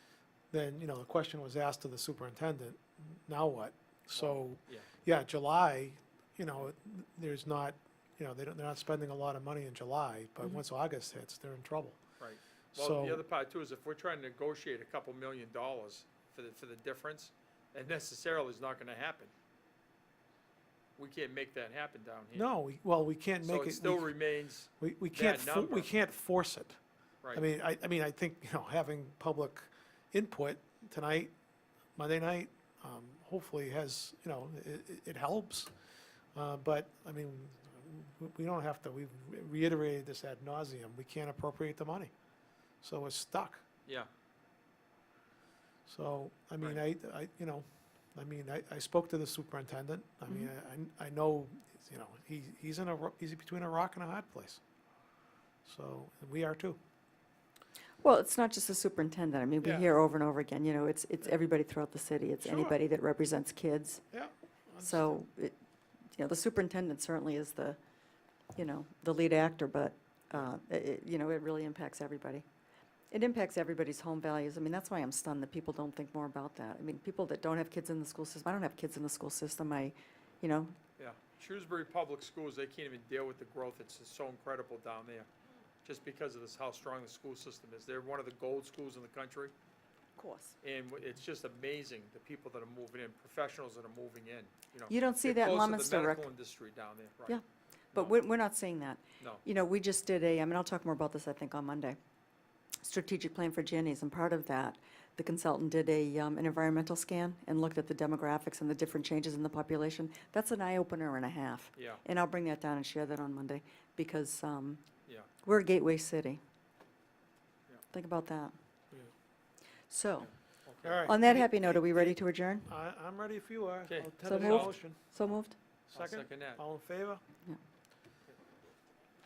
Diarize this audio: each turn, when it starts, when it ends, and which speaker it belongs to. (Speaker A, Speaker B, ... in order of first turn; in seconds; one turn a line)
Speaker A: 0.5-12.0
Speaker B: 4.1-4.9
Speaker B: 12.2-19.3
Speaker A: 12.7-13.2
Speaker B: 21.0-22.5
Speaker A: 22.3-24.1
Speaker B: 23.4-25.9
Speaker A: 24.8-26.8
Speaker B: 27.2-27.5
Speaker A: 27.3-31.3
Speaker A: 31.9-35.7
Speaker A: 36.3-42.1
Speaker A: 42.8-43.6
Speaker A: 45.9-54.6
Speaker A: 55.6-56.8
Speaker C: 58.0-64.0
Speaker A: 59.6-59.9
Speaker A: 62.4-62.8
Speaker A: 64.1-65.2
Speaker C: 64.8-65.5
Speaker C: 66.1-67.8
Speaker C: 68.5-72.4
Speaker C: 73.1-80.7
Speaker B: 81.0-85.3
Speaker B: 85.8-89.5
Speaker C: 90.2-90.5
Speaker B: 90.6-97.4
Speaker C: 94.9-96.3
Speaker C: 97.9-102.0
Speaker B: 99.2-99.4
Speaker C: 102.8-114.8
Speaker B: 111.8-112.0
Speaker C: 115.4-116.4
Speaker C: 117.9-118.5
Speaker C: 119.9-120.3
Speaker B: 120.2-121.1
Speaker A: 120.8-125.0
Speaker C: 121.0-122.7
Speaker B: 123.9-124.7
Speaker C: 124.2-125.5
Speaker A: 125.9-127.2
Speaker B: 125.9-126.6